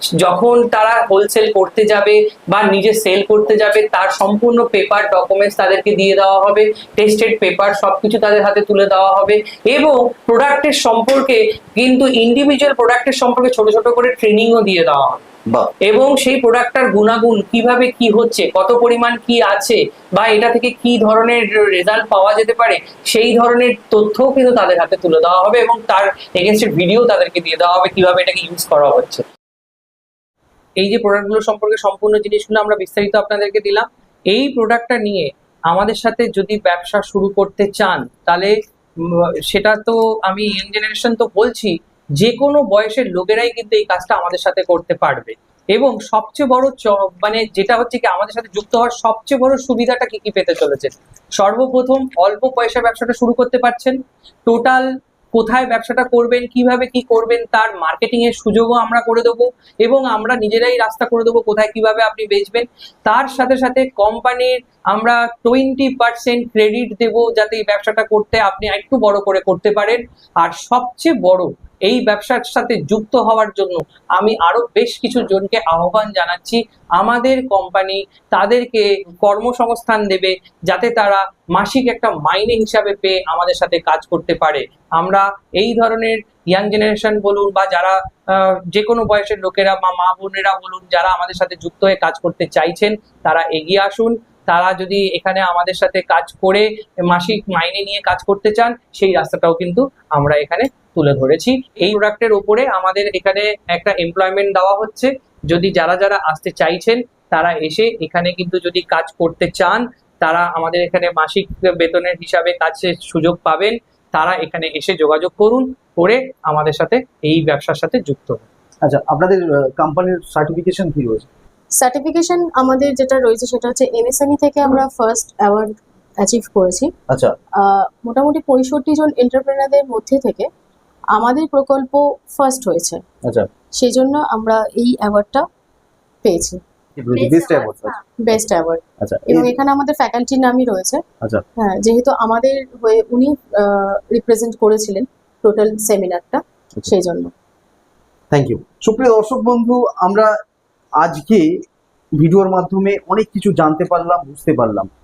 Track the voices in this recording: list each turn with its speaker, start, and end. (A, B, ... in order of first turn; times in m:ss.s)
0:00.2-0:15.2 A
0:15.8-0:29.2 A
0:30.8-0:38.5 A
0:39.0-1:58.4 A
1:58.9-2:01.3 B
2:01.8-2:06.9 C
2:07.1-2:07.4 B
2:07.6-2:10.5 C
2:11.2-2:13.0 C
2:13.8-2:15.5 C
2:16.2-2:16.6 C
2:17.0-2:18.0 B
2:17.2-2:21.0 C
2:19.0-2:19.5 B
2:21.6-2:27.3 C
2:28.3-2:30.3 B
2:31.0-2:31.6 B
2:32.2-2:34.9 B